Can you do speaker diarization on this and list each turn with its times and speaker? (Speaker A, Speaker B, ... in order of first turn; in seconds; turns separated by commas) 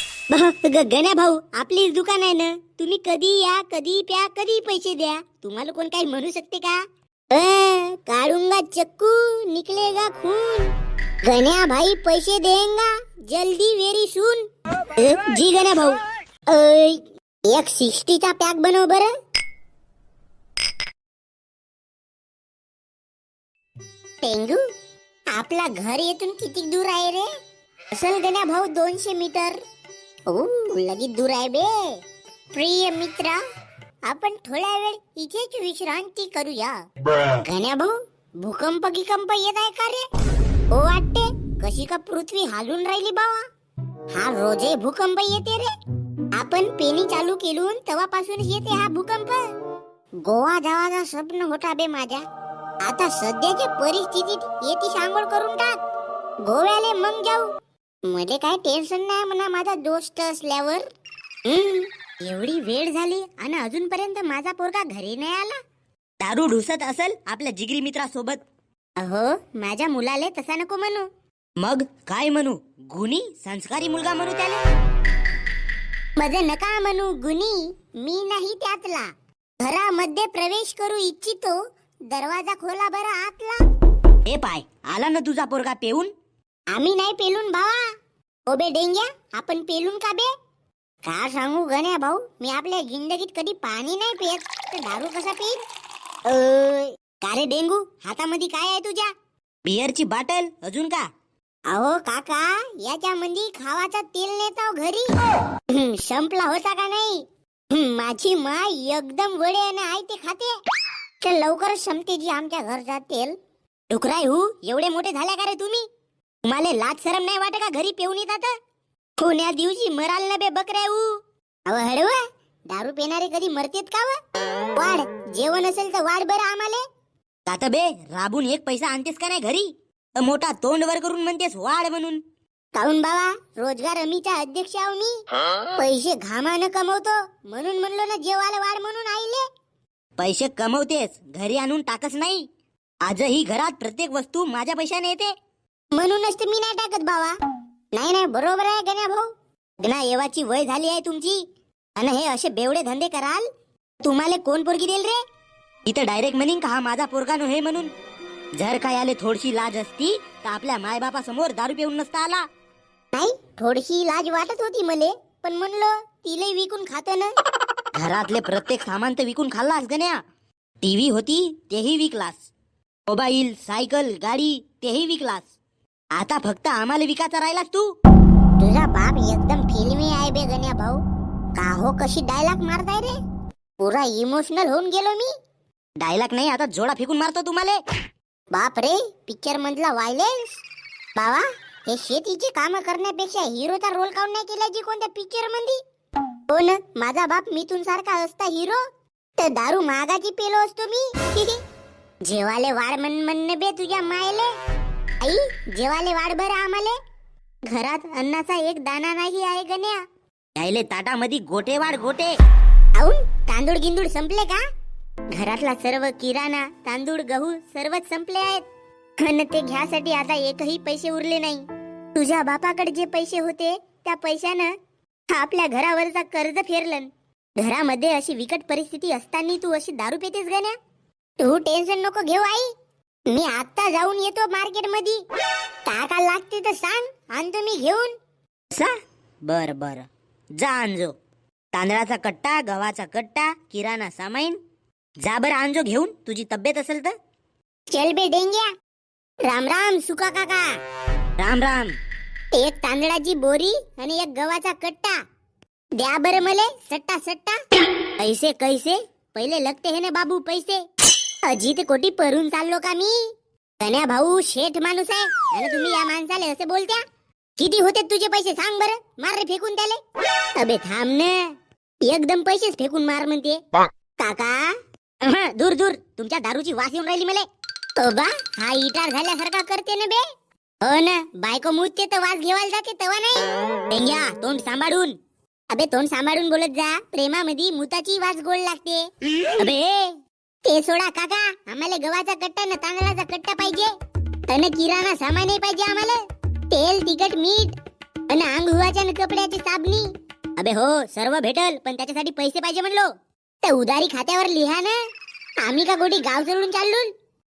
Speaker A: 0.3-10.7, Speaker A: 11.2-14.4, Speaker A: 14.9-19.1, Speaker A: 24.2-24.6, Speaker A: 25.3-27.3, Speaker A: 27.9-29.6, Speaker A: 30.3-32.0, Speaker A: 32.5-33.4, Speaker A: 34.0-36.8, Speaker A: 37.4-40.0, Speaker A: 40.7-43.5, Speaker A: 44.1-45.7, Speaker A: 46.3-49.5, Speaker A: 50.2-52.2, Speaker A: 52.8-55.8, Speaker A: 56.4-57.5, Speaker A: 58.1-60.8, Speaker A: 61.4-65.6, Speaker B: 66.2-68.4, Speaker A: 69.0-71.1, Speaker B: 71.6-74.6, Speaker A: 76.2-79.1, Speaker A: 79.6-81.6, Speaker A: 82.1-83.6, Speaker B: 84.2-86.1, Speaker A: 86.7-87.9, Speaker A: 88.5-90.3, Speaker A: 91.0-95.6, Speaker A: 96.2-99.1, Speaker B: 99.6-101.1, Speaker A: 101.7-105.1, Speaker A: 105.7-110.6, Speaker A: 111.2-113.4, Speaker A: 113.9-115.8, Speaker A: 116.4-118.5, Speaker A: 119.2-124.2, Speaker A: 124.7-126.8, Speaker B: 127.5-132.2, Speaker A: 132.7-135.2, Speaker A: 135.7-139.4, Speaker B: 140.2-142.4, Speaker B: 143.0-145.3, Speaker A: 145.9-147.4, Speaker A: 147.9-149.3, Speaker A: 149.8-151.4, Speaker A: 152.0-153.5, Speaker A: 154.0-155.2, Speaker B: 155.8-157.9, Speaker B: 158.6-162.4, Speaker A: 163.1-167.3, Speaker B: 167.9-170.2, Speaker B: 170.8-172.4, Speaker B: 173.1-175.5, Speaker B: 176.1-177.9, Speaker A: 178.6-181.0, Speaker A: 181.6-183.2, Speaker A: 183.8-185.3, Speaker B: 186.0-187.8, Speaker A: 188.5-190.6, Speaker A: 191.2-195.8, Speaker A: 196.5-198.8, Speaker A: 199.4-201.6, Speaker A: 202.2-204.5, Speaker A: 205.2-207.0, Speaker A: 207.7-210.0, Speaker B: 210.6-212.3, Speaker A: 212.9-214.6, Speaker A: 215.3-218.6, Speaker A: 219.2-224.7, Speaker A: 225.3-230.8, Speaker A: 231.4-232.7, Speaker A: 233.3-235.2, Speaker A: 235.8-238.1, Speaker B: 239.4-241.2, Speaker B: 241.7-244.6, Speaker B: 245.2-247.2, Speaker A: 247.9-248.7, Speaker A: 249.5-250.8, Speaker B: 251.4-251.9, Speaker A: 252.5-255.2, Speaker A: 256.0-257.6, Speaker A: 258.2-260.8, Speaker A: 261.4-267.0, Speaker A: 267.6-270.0, Speaker A: 270.6-271.5, Speaker A: 272.0-273.6, Speaker A: 274.2-280.2, Speaker A: 280.8-285.2, Speaker A: 285.7-293.9, Speaker A: 294.5-297.8, Speaker A: 298.3-303.1, Speaker A: 303.6-305.0, Speaker A: 305.6-307.1